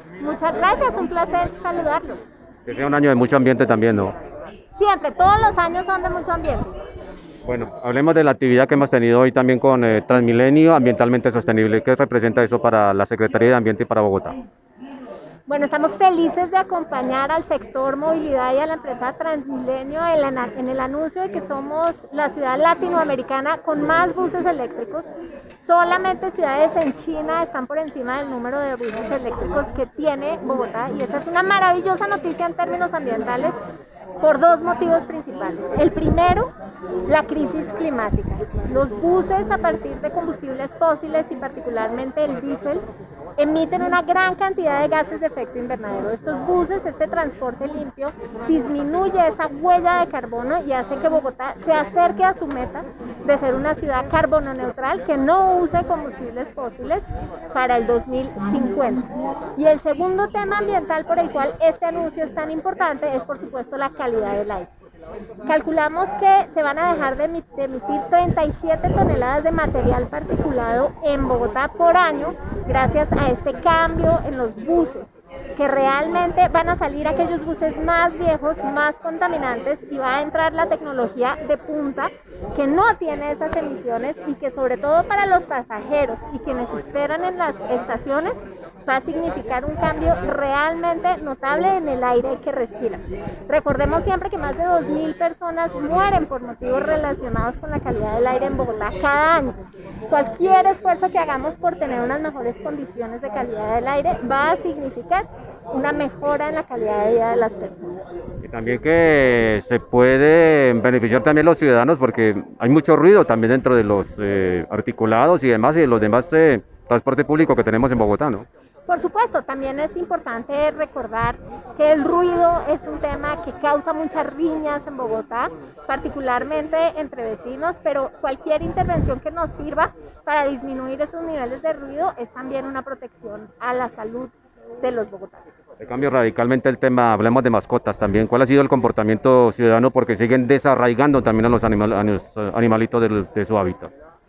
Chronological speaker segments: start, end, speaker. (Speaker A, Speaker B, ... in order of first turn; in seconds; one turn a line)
Speaker A: 0.2-2.2
Speaker B: 2.7-4.1
Speaker A: 4.8-6.7
Speaker B: 7.5-14.4
Speaker A: 15.5-25.1
Speaker A: 25.6-33.6
Speaker A: 34.2-36.5
Speaker A: 37.1-42.8
Speaker A: 43.4-64.7
Speaker A: 65.5-108.0
Speaker B: 108.4-118.5
Speaker A: 118.9-135.4
Speaker B: 135.8-143.9